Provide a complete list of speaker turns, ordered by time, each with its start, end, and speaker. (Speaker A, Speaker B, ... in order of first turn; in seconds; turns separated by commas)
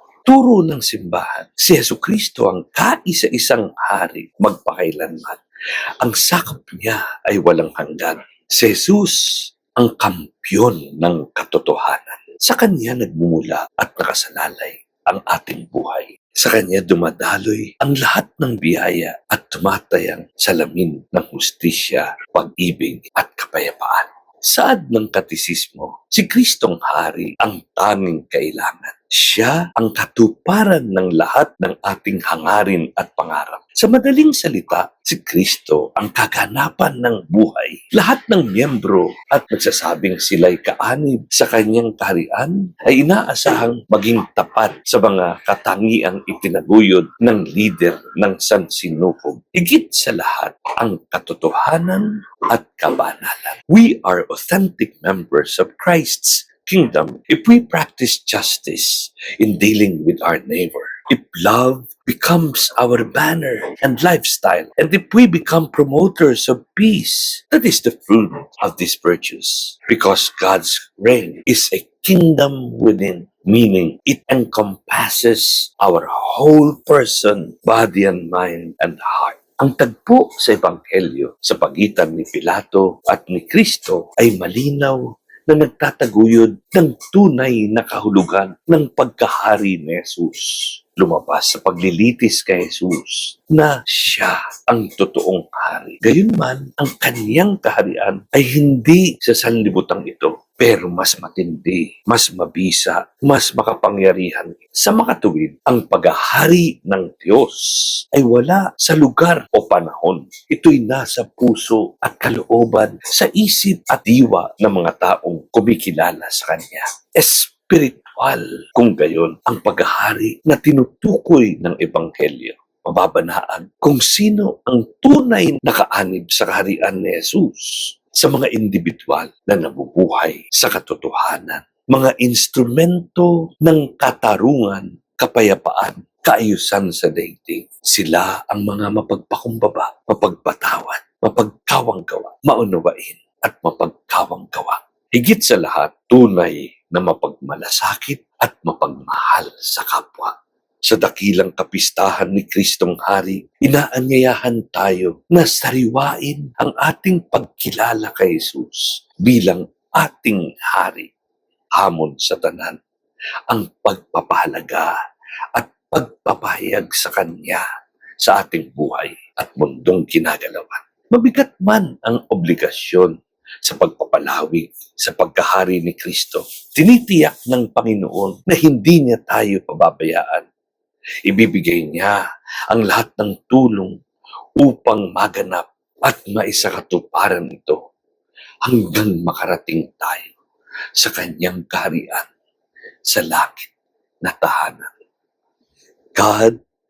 Speaker A: 0.3-5.4, Speaker A: 6.0-150.3, Speaker A: 150.8-161.1, Speaker A: 161.8-162.8, Speaker A: 163.5-164.9, Speaker A: 165.5-167.7, Speaker A: 168.2-180.5, Speaker A: 181.3-183.9, Speaker A: 184.6-187.8, Speaker A: 188.6-190.3, Speaker A: 191.0-192.3, Speaker A: 193.1-193.7, Speaker A: 194.2-194.9, Speaker A: 196.2-196.6